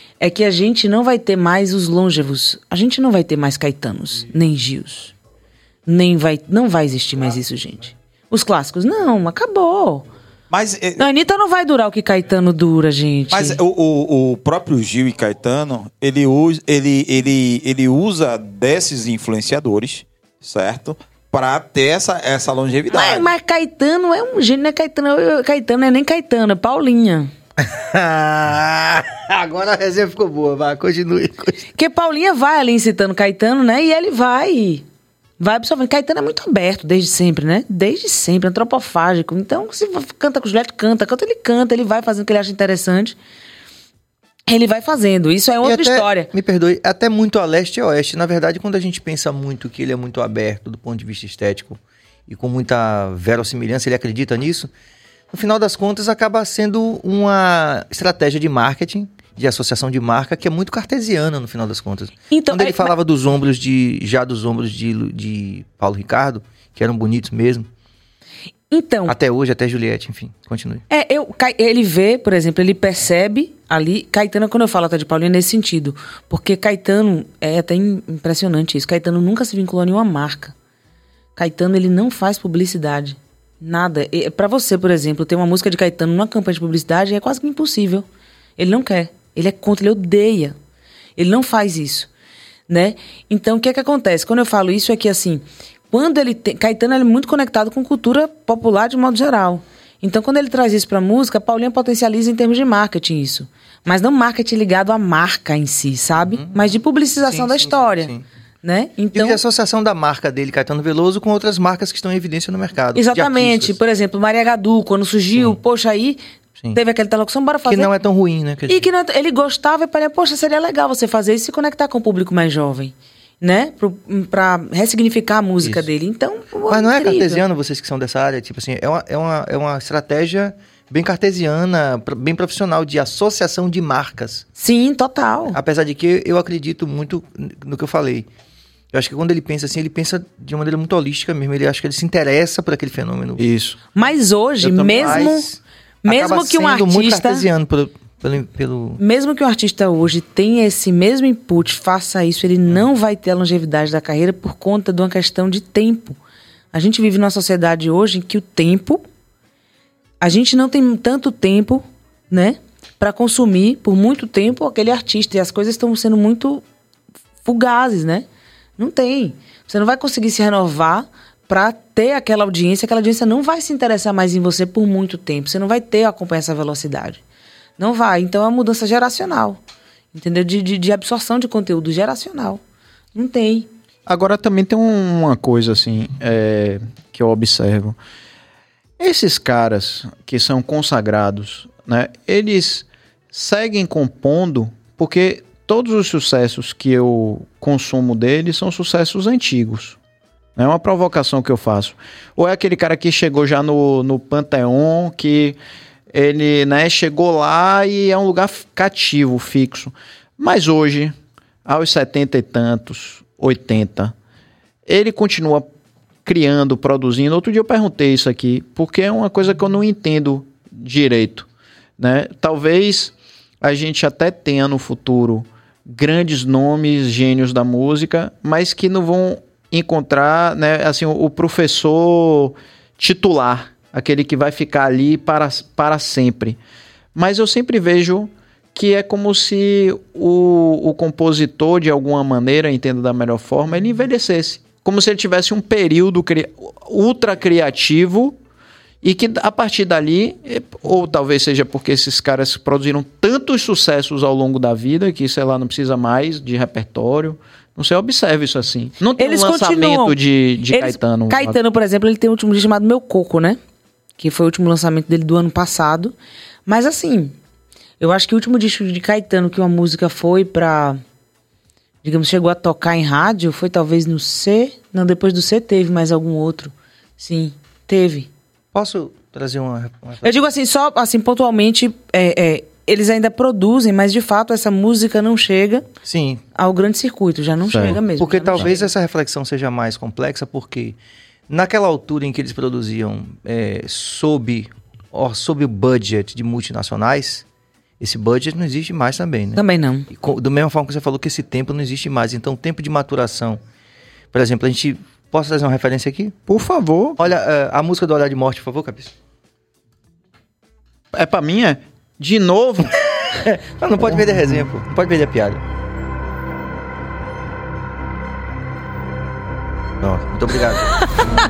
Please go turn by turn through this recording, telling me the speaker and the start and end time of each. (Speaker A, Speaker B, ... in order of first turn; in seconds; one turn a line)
Speaker A: 0.2-5.1
Speaker A: 5.9-10.1
Speaker B: 10.5-11.0
Speaker A: 11.0-13.6
Speaker B: 13.3-23.3
Speaker A: 22.9-27.3
Speaker C: 27.6-31.6
Speaker A: 31.8-34.9
Speaker A: 35.4-43.2
Speaker A: 44.5-46.3
Speaker C: 45.6-54.7
Speaker C: 55.3-67.7
Speaker A: 62.3-62.9
Speaker A: 68.7-69.1
Speaker C: 69.1-70.8
Speaker A: 70.9-80.5
Speaker A: 81.4-88.1
Speaker A: 88.6-90.5
Speaker A: 91.2-92.1
Speaker A: 92.7-108.1
Speaker C: 106.2-106.6
Speaker C: 107.2-108.2
Speaker A: 108.6-109.4
Speaker C: 109.1-113.8
Speaker A: 113.0-116.2
Speaker A: 116.7-117.9
Speaker C: 117.7-118.8
Speaker A: 118.7-127.4
Speaker C: 126.7-134.4
Speaker A: 134.6-135.6
Speaker C: 135.5-138.3
Speaker C: 138.9-143.5
Speaker D: 143.4-143.8
Speaker A: 143.9-145.5
Speaker D: 144.6-145.3
Speaker C: 144.8-149.0
Speaker A: 146.1-147.5
Speaker A: 149.0-156.2
Speaker A: 156.7-159.0
Speaker A: 160.2-166.6
Speaker A: 167.4-168.3
Speaker A: 168.8-177.2
Speaker A: 177.8-179.6
Speaker A: 180.1-182.6
Speaker A: 183.2-183.7
Speaker D: 184.1-188.0
Speaker D: 189.0-200.0
Speaker D: 200.6-205.6
Speaker D: 206.1-214.1
Speaker D: 214.9-215.7
Speaker D: 216.2-221.5
Speaker D: 222.0-236.6
Speaker D: 237.2-248.4
Speaker D: 249.0-261.6
Speaker A: 259.2-260.2
Speaker A: 260.7-263.6
Speaker A: 264.2-266.1
Speaker A: 266.7-267.4
Speaker A: 268.0-271.0
Speaker A: 272.0-278.3
Speaker C: 278.7-280.4
Speaker A: 280.2-285.9
Speaker C: 286.1-286.4
Speaker A: 286.6-288.9
Speaker D: 287.7-288.0
Speaker C: 287.9-291.0
Speaker C: 291.5-297.4
Speaker C: 298.0-303.6
Speaker A: 299.6-300.1
Speaker C: 304.3-306.4
Speaker D: 306.5-307.2
Speaker C: 307.2-309.1
Speaker D: 311.1-313.0
Speaker C: 313.3-315.6
Speaker C: 320.0-321.1